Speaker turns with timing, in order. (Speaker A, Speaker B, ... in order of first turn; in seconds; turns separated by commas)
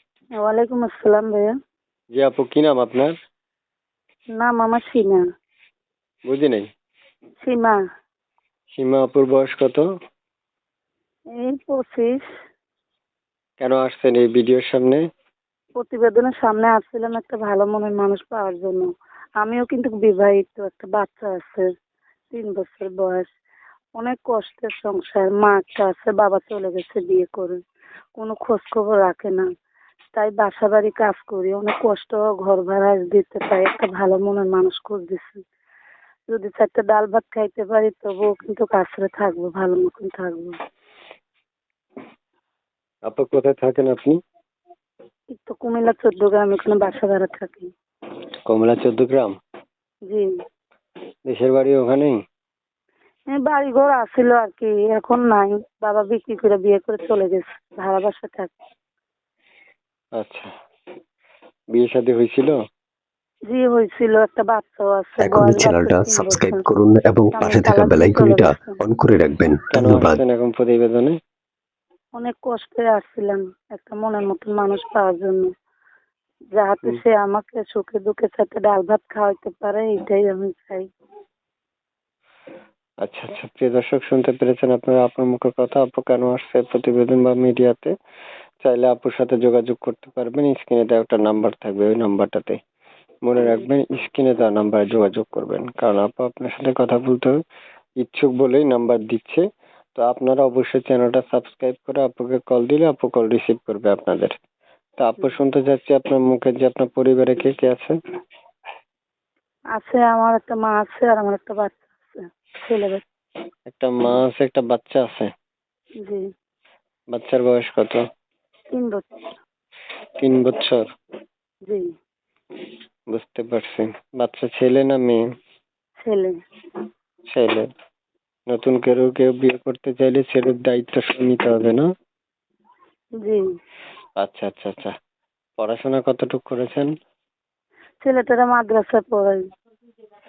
Speaker A: 0.4-1.5, Speaker B: 2.1-3.1, Speaker A: 4.4-5.2, Speaker B: 6.3-6.7, Speaker A: 7.4-7.8, Speaker B: 8.8-9.8, Speaker A: 11.4-12.2, Speaker B: 13.6-15.0, Speaker A: 15.8-18.9, Speaker A: 19.4-21.6, Speaker A: 22.3-23.3, Speaker A: 24.0-27.6, Speaker A: 28.2-29.4, Speaker A: 30.1-35.4, Speaker A: 36.3-40.6, Speaker B: 43.1-44.2, Speaker A: 45.3-47.7, Speaker B: 48.5-49.3, Speaker B: 51.3-52.2, Speaker A: 53.4-58.5, Speaker B: 60.2-60.5, Speaker B: 61.7-62.6, Speaker A: 63.5-66.6, Speaker C: 65.2-70.2, Speaker A: 67.3-68.8, Speaker B: 69.7-71.2, Speaker A: 72.2-75.5, Speaker A: 76.6-80.9, Speaker B: 83.0-87.9, Speaker B: 88.6-92.6, Speaker B: 93.2-97.4, Speaker B: 98.0-99.4, Speaker B: 100.0-104.3, Speaker B: 105.0-108.0, Speaker A: 109.8-113.0, Speaker B: 113.7-115.3, Speaker B: 117.1-118.0, Speaker A: 118.7-119.0, Speaker B: 120.2-120.8, Speaker B: 123.1-125.2, Speaker A: 126.0-126.3, Speaker B: 127.3-127.7, Speaker B: 128.5-131.9, Speaker B: 134.2-134.9, Speaker B: 135.6-136.9, Speaker A: 138.0-139.4